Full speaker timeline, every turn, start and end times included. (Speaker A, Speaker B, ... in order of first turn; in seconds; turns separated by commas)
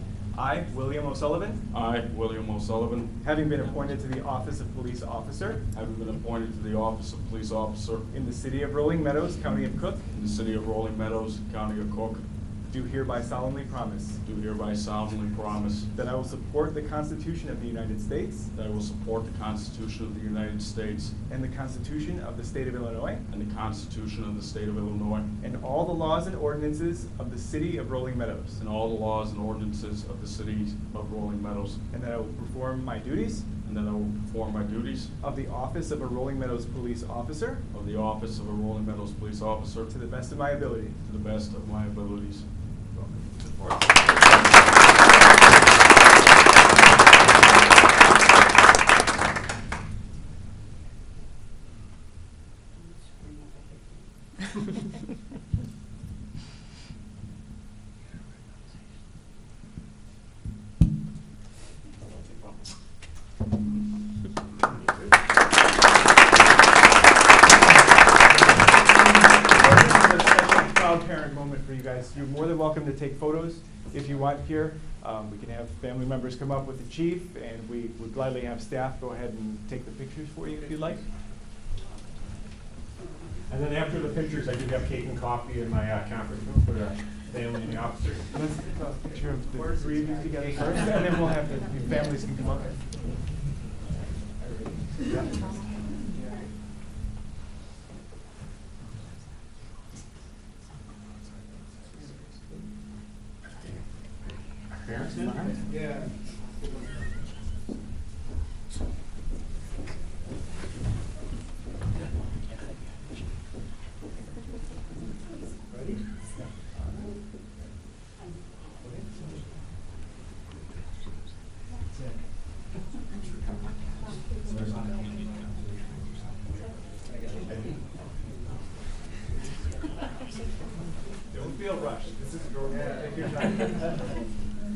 Speaker A: 0.3-1.6, Speaker B: 1.7-3.1, Speaker A: 3.2-5.7, Speaker B: 5.7-8.1, Speaker A: 8.1-10.0, Speaker B: 10.1-12.2, Speaker A: 12.7-14.2, Speaker B: 14.2-15.9, Speaker A: 15.9-18.5, Speaker B: 18.5-21.1, Speaker A: 21.3-23.3, Speaker B: 23.3-25.3, Speaker A: 25.4-28.6, Speaker B: 28.6-31.8, Speaker A: 31.9-33.5, Speaker B: 33.6-35.1, Speaker A: 35.2-37.6, Speaker B: 37.7-39.9, Speaker A: 39.9-41.0, Speaker B: 41.0-42.4, Speaker C: 43.0-44.2, Speaker A: 69.5-81.0, Speaker C: 83.5-88.3, Speaker A: 88.3-92.8, Speaker C: 103.6-105.7, Speaker C: 124.5-126.2, Speaker A: 131.3-134.2